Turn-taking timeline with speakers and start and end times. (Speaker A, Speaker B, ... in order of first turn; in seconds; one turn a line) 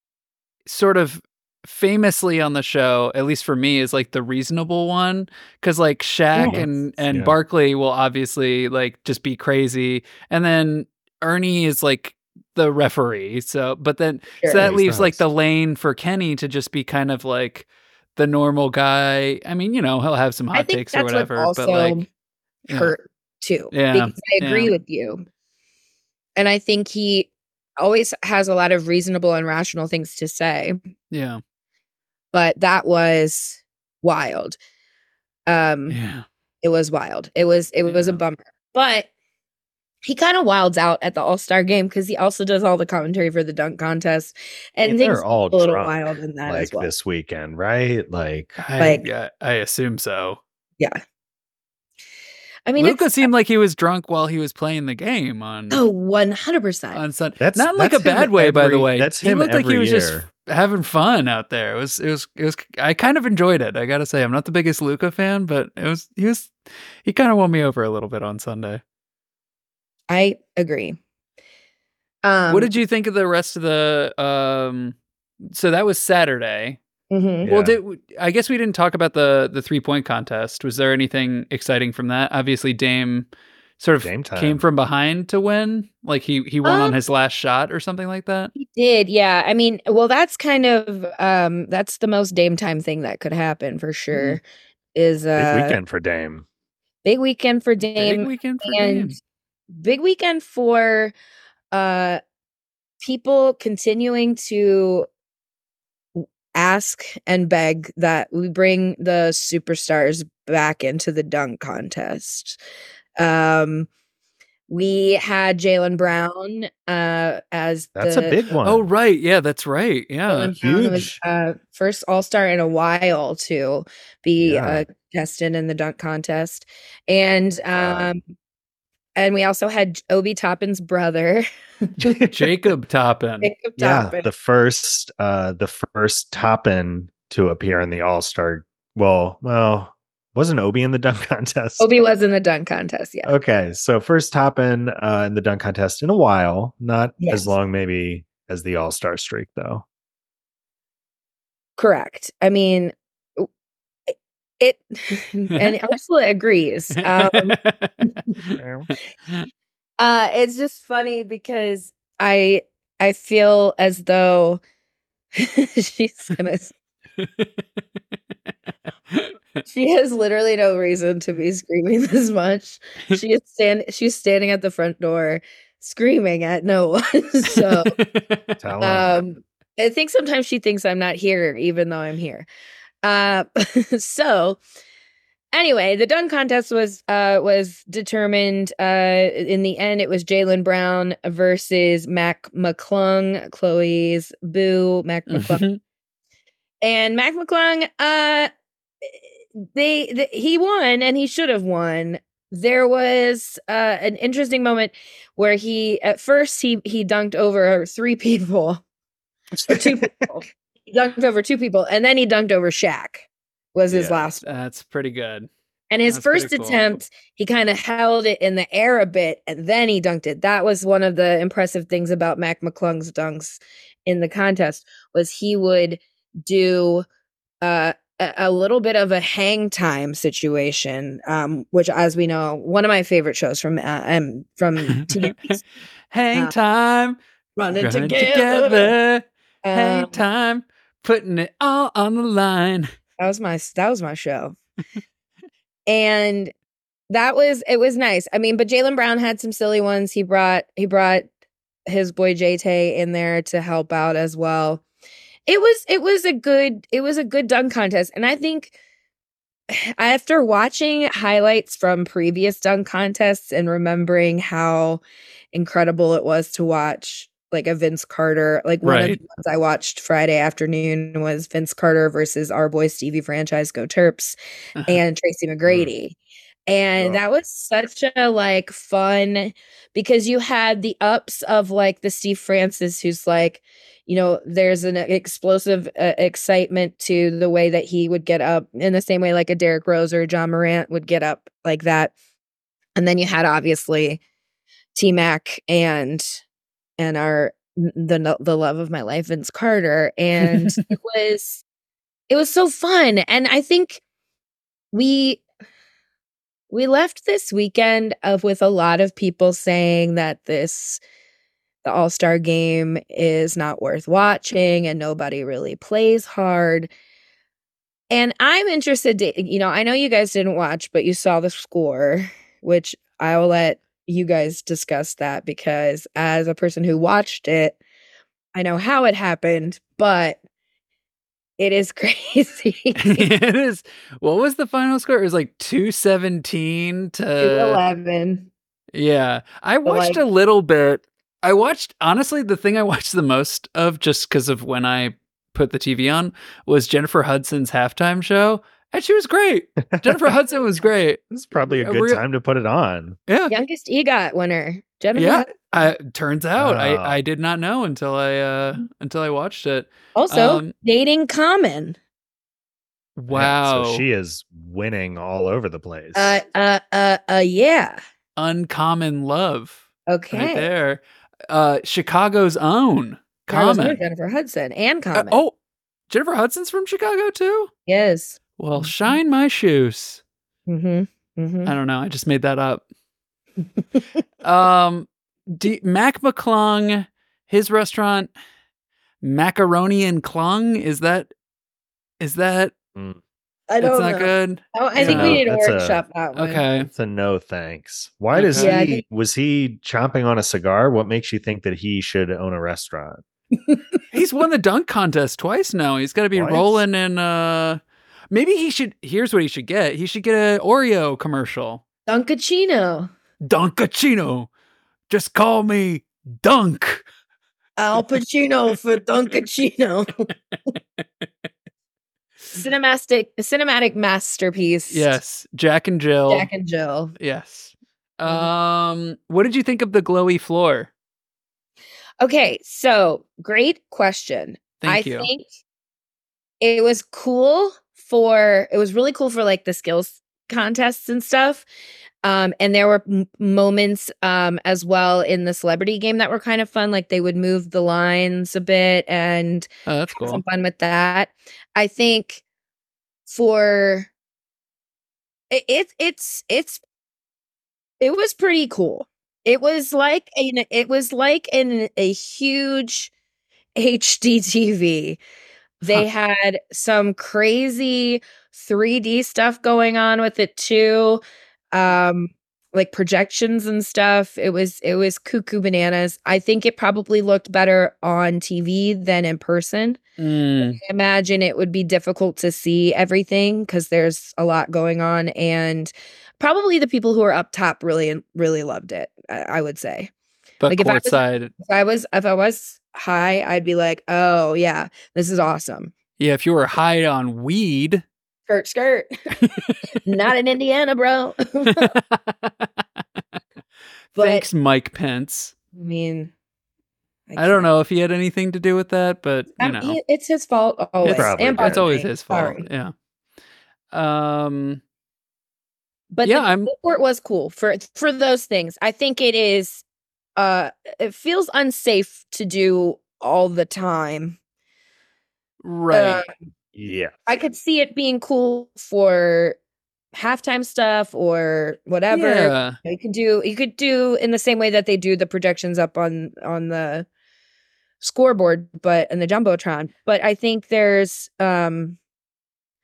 Speaker A: 0.7-22.0
Speaker B: 6.3-6.9
Speaker C: 6.4-7.4
Speaker B: 14.4-14.7
Speaker C: 14.6-15.2
Speaker B: 20.5-22.1
Speaker B: 22.7-25.3
Speaker A: 22.7-22.9
Speaker A: 23.7-24.8
Speaker B: 26.4-30.8
Speaker A: 31.1-31.4
Speaker B: 32.3-34.6
Speaker B: 35.5-36.0
Speaker A: 35.9-36.2
Speaker B: 36.6-39.1
Speaker A: 37.9-38.2
Speaker B: 40.0-46.9
Speaker C: 44.9-48.6
Speaker A: 48.6-50.4
Speaker B: 52.7-53.3
Speaker A: 52.8-55.8
Speaker B: 55.7-57.0
Speaker A: 56.9-68.8
Speaker C: 57.4-60.2
Speaker B: 70.1-71.0
Speaker B: 72.2-72.7
Speaker A: 72.5-75.0
Speaker A: 75.5-76.8
Speaker B: 77.1-77.5
Speaker C: 77.4-77.8
Speaker A: 77.5-83.3
Speaker A: 83.8-88.5
Speaker C: 84.0-84.6
Speaker B: 86.6-87.0
Speaker B: 88.5-94.4
Speaker A: 94.1-94.4
Speaker B: 95.0-95.8
Speaker C: 95.4-96.5
Speaker B: 97.0-99.2
Speaker A: 98.0-99.1
Speaker B: 99.7-101.1
Speaker B: 101.7-102.2
Speaker B: 103.0-105.1
Speaker B: 106.2-112.6
Speaker B: 113.2-113.9
Speaker B: 114.7-118.4
Speaker C: 118.0-118.9
Speaker A: 118.6-120.5
Speaker B: 120.3-128.2
Speaker C: 120.6-121.2
Speaker C: 124.4-124.8
Speaker C: 127.7-128.1
Speaker B: 129.2-131.4
Speaker C: 132.0-132.3
Speaker A: 132.3-133.5
Speaker B: 133.4-134.3
Speaker C: 133.8-141.9
Speaker B: 141.8-143.3
Speaker C: 143.3-149.8
Speaker B: 147.2-147.5
Speaker B: 151.8-153.5
Speaker B: 154.1-157.6
Speaker A: 157.0-158.6
Speaker C: 158.6-158.9
Speaker B: 160.0-164.6
Speaker B: 165.4-166.7
Speaker A: 167.2-167.5
Speaker B: 169.7-177.9
Speaker A: 177.6-178.5
Speaker C: 178.6-179.2
Speaker B: 178.8-182.5
Speaker B: 183.0-184.6
Speaker B: 185.5-195.6
Speaker A: 195.3-195.8
Speaker B: 196.8-198.5
Speaker B: 199.1-208.8
Speaker B: 209.7-214.4
Speaker C: 213.9-214.2
Speaker A: 214.4-215.5
Speaker B: 215.9-227.1
Speaker A: 216.1-216.9
Speaker B: 227.6-235.6
Speaker A: 236.1-237.2
Speaker B: 237.6-238.9
Speaker A: 237.8-242.9
Speaker B: 239.6-240.2
Speaker B: 243.2-244.6
Speaker B: 245.9-246.5
Speaker B: 247.1-251.3
Speaker B: 251.9-254.8
Speaker B: 255.5-258.7
Speaker B: 259.7-265.0
Speaker B: 265.5-274.4
Speaker A: 268.8-269.2
Speaker A: 274.8-275.0
Speaker B: 274.9-276.2
Speaker B: 276.7-292.1
Speaker B: 293.0-294.2
Speaker B: 294.9-296.4
Speaker B: 297.0-301.6
Speaker A: 300.5-300.8
Speaker B: 302.3-304.0
Speaker B: 304.9-305.4
Speaker B: 306.7-311.0
Speaker B: 311.8-316.9
Speaker B: 318.1-327.8
Speaker B: 328.6-330.4
Speaker B: 331.6-333.3
Speaker A: 333.0-337.8
Speaker B: 337.4-338.5
Speaker A: 338.9-352.2
Speaker B: 339.9-340.2
Speaker C: 349.9-350.3
Speaker C: 351.3-353.2
Speaker A: 353.3-353.5
Speaker B: 353.5-355.7
Speaker A: 355.2-360.7
Speaker C: 356.6-357.2
Speaker B: 360.1-362.0
Speaker A: 363.2-364.0
Speaker C: 363.3-366.4
Speaker B: 366.1-368.0
Speaker A: 368.4-374.0
Speaker B: 370.1-370.7
Speaker B: 373.5-375.4
Speaker A: 375.1-375.5
Speaker A: 376.1-377.7
Speaker B: 377.9-378.9
Speaker A: 378.6-380.2
Speaker B: 380.7-381.7
Speaker A: 381.7-382.8
Speaker A: 384.4-388.3
Speaker A: 389.2-391.3
Speaker A: 392.2-392.7
Speaker C: 392.9-393.2
Speaker B: 393.7-396.6
Speaker A: 393.8-395.4
Speaker C: 394.9-396.0
Speaker A: 396.4-396.9
Speaker C: 396.8-403.2
Speaker A: 398.3-398.8
Speaker B: 398.6-399.0
Speaker B: 403.7-404.0
Speaker A: 404.1-407.8
Speaker C: 406.3-406.8
Speaker A: 408.3-411.8
Speaker B: 412.1-413.1
Speaker A: 413.4-414.5
Speaker A: 415.1-417.0
Speaker B: 417.8-420.3
Speaker B: 422.5-425.2
Speaker A: 424.9-426.5
Speaker B: 426.3-427.1
Speaker A: 427.2-430.9
Speaker B: 428.2-428.5
Speaker B: 432.2-435.5
Speaker A: 434.8-435.3
Speaker B: 436.6-441.6
Speaker B: 442.2-452.4
Speaker A: 449.9-450.4
Speaker B: 453.3-454.1
Speaker B: 455.5-456.8
Speaker B: 458.0-463.1
Speaker B: 463.8-465.2
Speaker B: 465.8-471.2
Speaker B: 471.7-480.0
Speaker A: 480.2-480.8
Speaker B: 480.7-490.1
Speaker A: 490.6-491.5
Speaker B: 490.7-495.9
Speaker A: 496.2-498.0
Speaker B: 498.5-501.9
Speaker A: 501.7-502.7
Speaker A: 504.1-505.5
Speaker B: 504.2-504.5
Speaker B: 505.8-506.3
Speaker B: 507.3-507.7
Speaker A: 507.4-510.0
Speaker B: 509.6-512.6
Speaker A: 511.1-512.9
Speaker C: 511.1-511.9
Speaker A: 513.9-514.8
Speaker B: 516.1-519.8
Speaker A: 516.2-516.7
Speaker B: 520.4-524.4
Speaker A: 525.6-526.2
Speaker B: 525.9-526.3
Speaker C: 526.7-527.2
Speaker B: 527.3-529.6
Speaker B: 530.1-537.1
Speaker A: 532.1-532.8
Speaker B: 538.0-542.0